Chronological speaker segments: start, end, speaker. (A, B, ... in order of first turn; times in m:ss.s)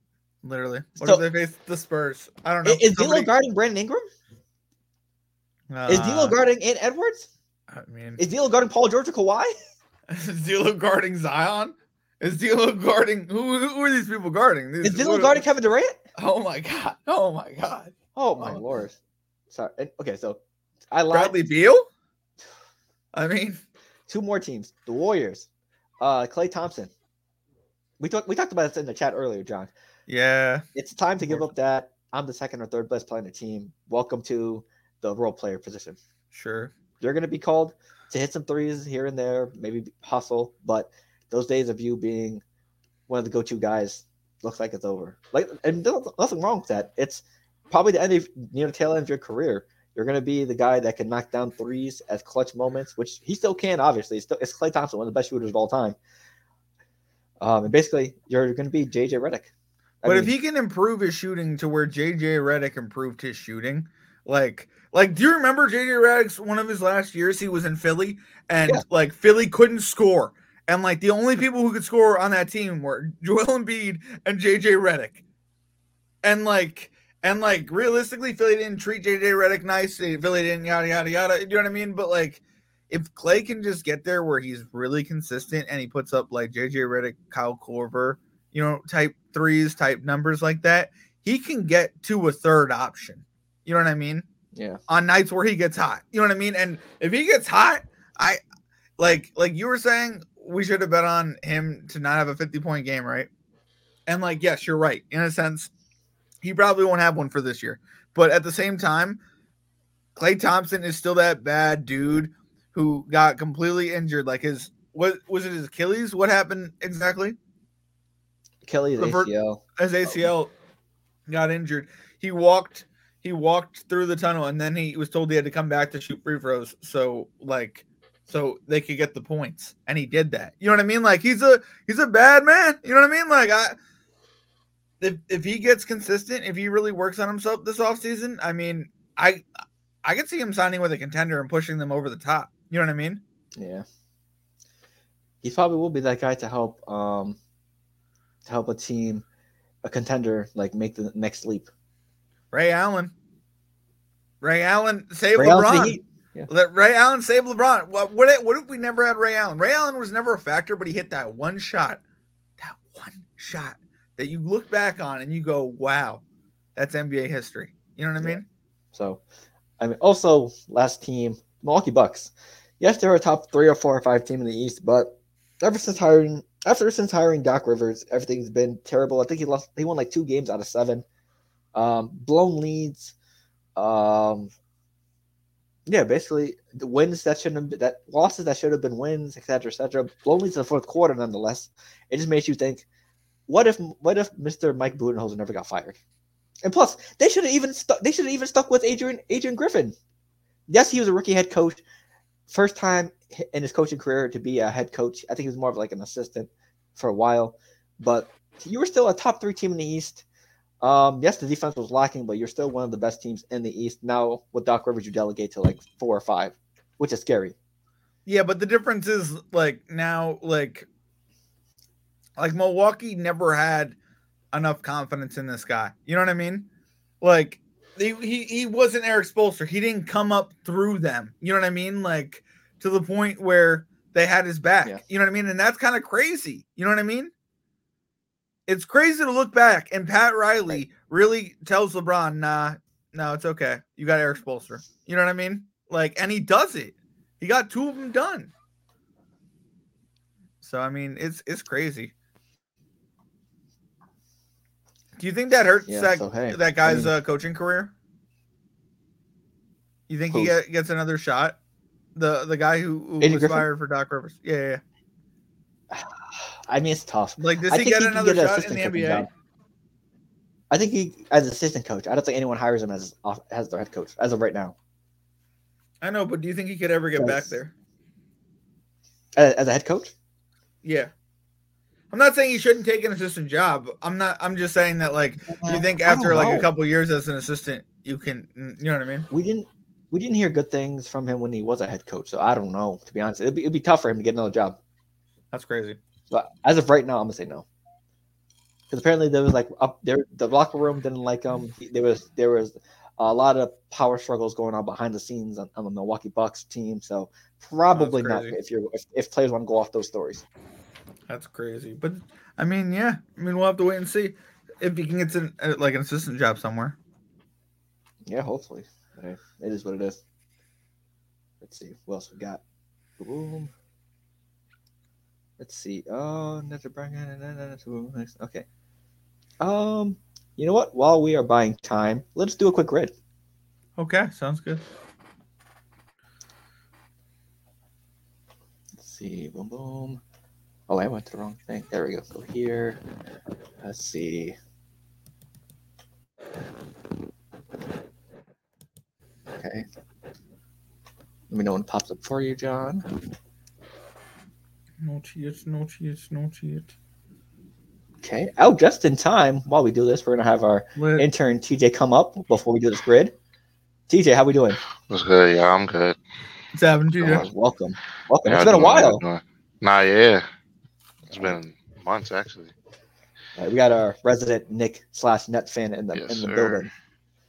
0:00.4-0:03.3 A
0:02.6-0:04.1 B
0:05.7-0:06.4 A
0:05.9-0:07.3 B
0:07.7-0:08.2 A
0:08.2-0:09.5 B
0:10.1-0:15.4 A
0:14.8-0:16.0 B
0:16.2-0:18.6 A
0:18.2-0:19.0 B
0:19.5-0:20.4 B
0:20.9-0:21.4 B
0:21.1-0:21.9 A
0:23.1-0:23.6 A
0:24.1-0:25.5 B
0:26.0-0:26.9 B
0:28.0-0:29.7 B
0:30.1-0:30.6 A
0:30.8-0:36.0 B
0:36.3-0:36.7 A
0:37.0-0:42.4 B
0:43.1-0:56.0 B
0:57.4-0:59.5 B
1:00.0-1:00.3 B
1:00.0-1:15.2 A
1:16.2-1:34.3 A
1:34.6-1:34.8 B
1:34.9-1:38.4 A
1:39.0-1:43.3 A
1:44.1-1:45.7 A
1:46.4-1:49.2 A
1:50.2-1:57.4 A
1:58.6-1:59.6 B
1:59.0-2:00.5 A
2:01.3-2:13.8 A
2:15.0-2:19.4 A
2:20.0-2:23.2 A
2:23.6-2:23.8 B
2:25.4-2:27.4 B
2:28.4-2:29.2 B
2:29.8-2:31.7 B
2:32.5-2:33.1 A
2:34.4-2:36.0 A
2:35.4-2:36.5 B
2:36.5-2:42.0 A
2:42.6-2:46.2 A
2:46.8-2:48.4 A
2:48.9-2:49.2 B
2:49.8-3:01.0 B
3:01.8-3:03.1 B
3:03.8-3:04.5 B
3:05.9-3:12.8 B
3:13.5-3:16.0 B
3:16.6-3:20.0 B
3:20.7-3:21.8 B
3:22.5-3:30.2 B
3:30.8-3:37.6 B
3:38.3-3:40.9 A
3:42.4-3:44.0 A
3:44.5-3:46.7 A
3:47.2-3:57.3 A
3:58.7-4:08.5 A
4:10.6-4:12.1 A
4:15.2-4:17.9 A
4:15.9-4:17.1 B
4:20.1-4:21.6 A
4:20.3-4:20.6 B
4:22.2-4:24.8 A
4:23.2-4:23.7 B
4:25.9-4:29.3 B
4:27.4-4:29.3 A
4:30.7-4:34.8 B
4:36.0-4:37.7 A
4:37.2-4:37.6 B
4:39.4-4:40.1 B
4:40.8-4:41.1 A
4:42.1-4:49.3 A
4:45.5-4:46.7 B
4:49.3-4:54.8 B
4:55.5-4:56.0 A
4:56.3-4:57.6 B
4:58.9-5:10.4 B
5:07.9-5:08.6 A
5:11.3-5:17.0 A
5:18.3-5:20.2 B
5:21.6-5:22.6 B
5:23.2-5:23.7 B
5:25.6-5:28.6 B
5:29.6-5:33.1 B
5:34.0-5:34.8 A
5:39.0-5:40.2 B
5:40.9-5:43.0 B
5:43.8-5:44.6 B
5:49.6-5:49.8 B
5:51.5-5:53.1 B
5:55.0-5:56.9 A
5:58.2-6:03.3 B
6:01.0-6:01.3 A
6:04.1-6:04.8 B
6:05.1-6:06.2 C
6:06.7-6:07.5 A
6:07.2-6:09.2 B
6:08.5-6:10.5 C
6:11.3-6:12.7 C
6:13.6-6:16.9 B
6:16.1-6:16.8 C